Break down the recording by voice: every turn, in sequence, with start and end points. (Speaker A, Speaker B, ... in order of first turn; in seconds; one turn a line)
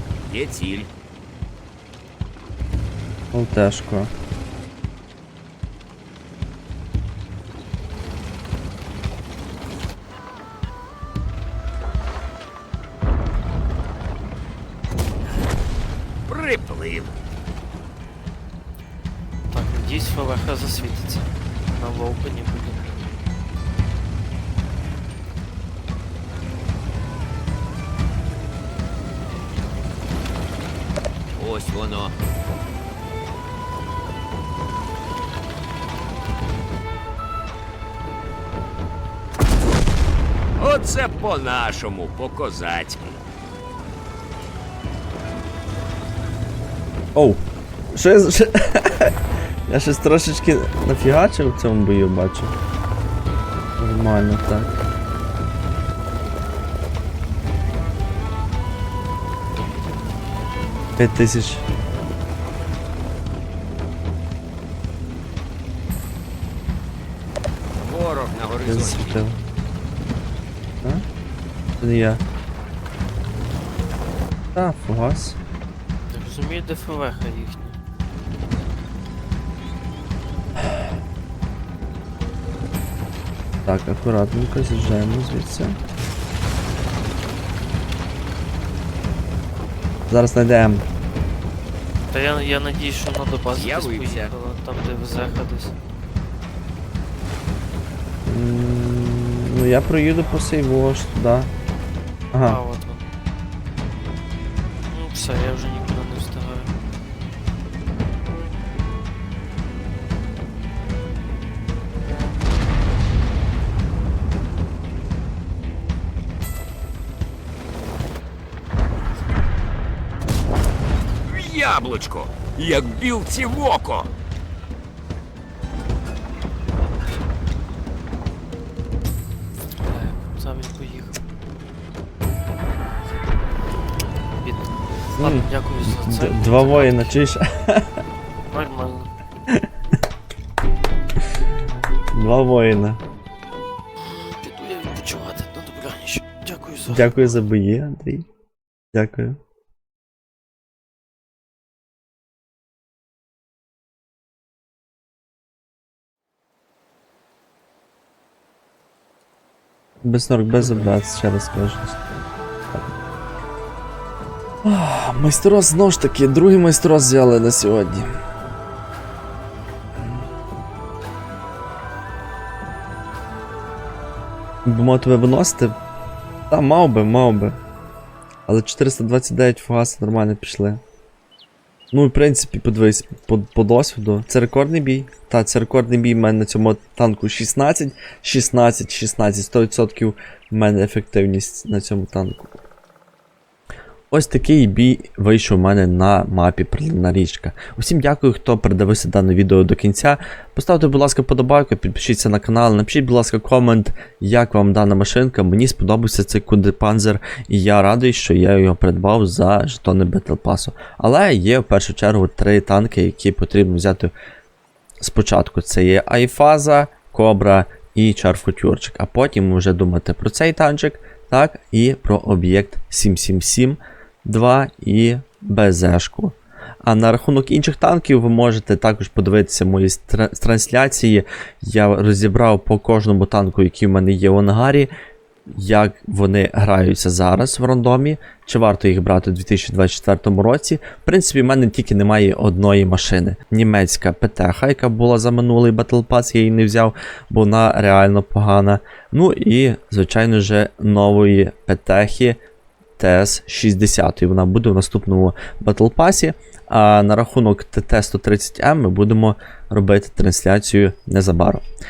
Speaker A: 0.3-0.9
Speaker B: 3.3-4.1
Speaker A: 16.3-17.1
Speaker C: 19.5-23.0
Speaker A: 31.3-32.1
Speaker A: 40.6-43.2
Speaker B: 47.1-49.1
Speaker B: 49.7-52.5
Speaker B: 53.8-54.7
Speaker B: 61.0-61.6
Speaker A: 67.8-69.2
Speaker B: 68.6-69.4
Speaker B: 71.8-72.2
Speaker B: 74.5-75.4
Speaker C: 76.1-77.8
Speaker B: 83.6-85.8
Speaker B: 90.1-90.8
Speaker C: 92.1-95.7
Speaker A: 93.5-94.3
Speaker B: 98.2-101.5
Speaker B: 102.3-102.6
Speaker C: 102.4-103.1
Speaker C: 104.9-106.7
Speaker A: 121.2-124.1
Speaker C: 129.8-131.2
Speaker C: 134.4-137.2
Speaker B: 135.2-137.9
Speaker C: 138.5-139.1
Speaker B: 142.1-143.0
Speaker C: 144.3-147.3
Speaker B: 146.8-148.2
Speaker B: 148.9-149.4
Speaker B: 160.0-162.0
Speaker B: 164.6-168.1
Speaker B: 174.6-175.8
Speaker B: 176.5-177.6
Speaker B: 178.5-180.8
Speaker B: 181.9-192.6
Speaker B: 194.1-214.1
Speaker B: 215.0-234.9
Speaker B: 235.5-252.4
Speaker B: 253.0-261.6